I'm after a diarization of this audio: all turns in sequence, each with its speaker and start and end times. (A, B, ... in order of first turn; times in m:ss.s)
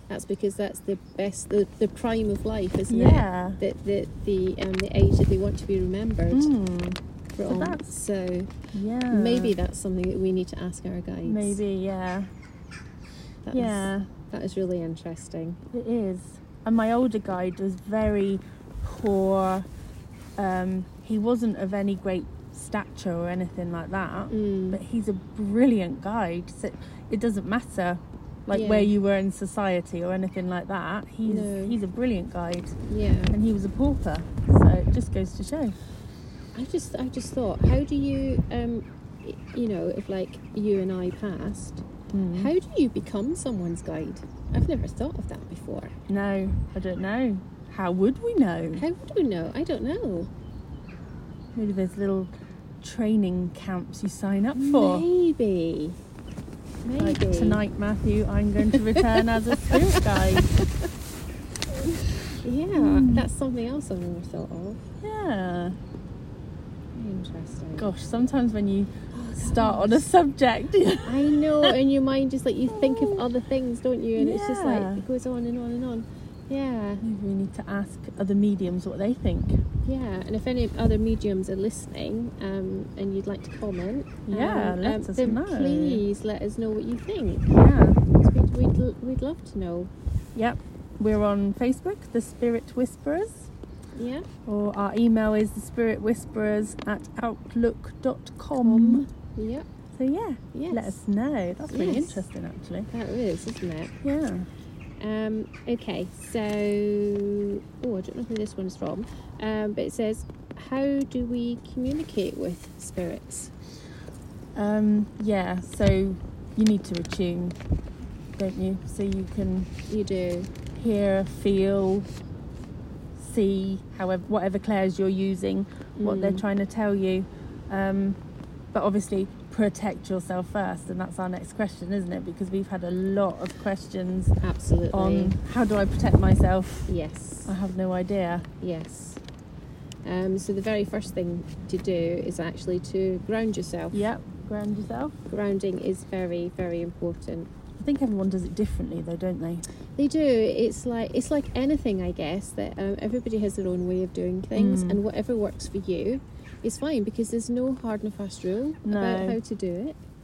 0:00.1-0:06.5 A
0:02.9-0:03.6 B
0:06.3-0:07.9 B
0:07.3-0:08.5 A
0:08.7-0:09.6 B
0:09.1-0:11.6 A
0:11.2-0:12.3 B
0:13.5-0:15.6 A
0:13.5-0:14.1 B
0:15.7-0:19.7 B
0:20.4-0:32.8 B
0:24.3-0:24.8 A
0:28.5-0:28.9 A
0:31.2-0:31.8 A
0:32.9-0:33.4 A
0:33.3-0:35.8 B
0:36.5-0:45.9 A
0:42.1-0:42.5 B
0:46.1-0:48.8 B
0:48.7-0:50.3 A
0:51.6-0:55.1 B
0:54.6-0:56.0 A
0:56.8-0:57.6 A
0:57.0-1:00.5 B
0:58.7-1:00.7 A
1:02.4-1:04.8 A
1:02.8-1:03.3 B
1:05.0-1:05.8 B
1:06.9-1:07.9 A
1:07.8-1:11.8 B
1:09.1-1:10.1 A
1:11.0-1:17.0 A
1:12.7-1:13.3 B
1:14.2-1:15.0 B
1:17.0-1:19.6 B
1:19.8-1:27.6 A
1:24.3-1:26.0 B
1:27.5-1:28.0 B
1:28.1-1:29.9 A
1:30.4-1:33.5 B
1:34.0-1:34.3 A
1:34.5-1:39.1 B
1:38.6-1:39.7 A
1:40.0-1:42.9 B
1:40.5-1:41.0 A
1:41.7-1:42.3 A
1:42.9-1:44.0 A
1:44.0-1:44.5 B
1:45.0-1:53.5 A
1:54.6-1:57.6 B
1:58.4-1:59.7 B
1:59.9-2:00.5 A
2:00.7-2:02.1 B
2:03.2-2:08.2 B
2:06.0-2:06.4 A
2:08.7-2:14.3 B
2:14.4-2:15.4 A
2:14.9-2:16.9 B
2:16.9-2:17.5 A
2:17.5-2:18.5 B
2:18.6-2:19.2 A
2:20.0-2:24.0 A
2:23.9-2:25.2 B
2:25.3-2:27.5 A
2:27.8-2:29.6 B
2:30.0-2:40.0 A
2:34.6-2:35.0 B
2:38.8-2:39.4 B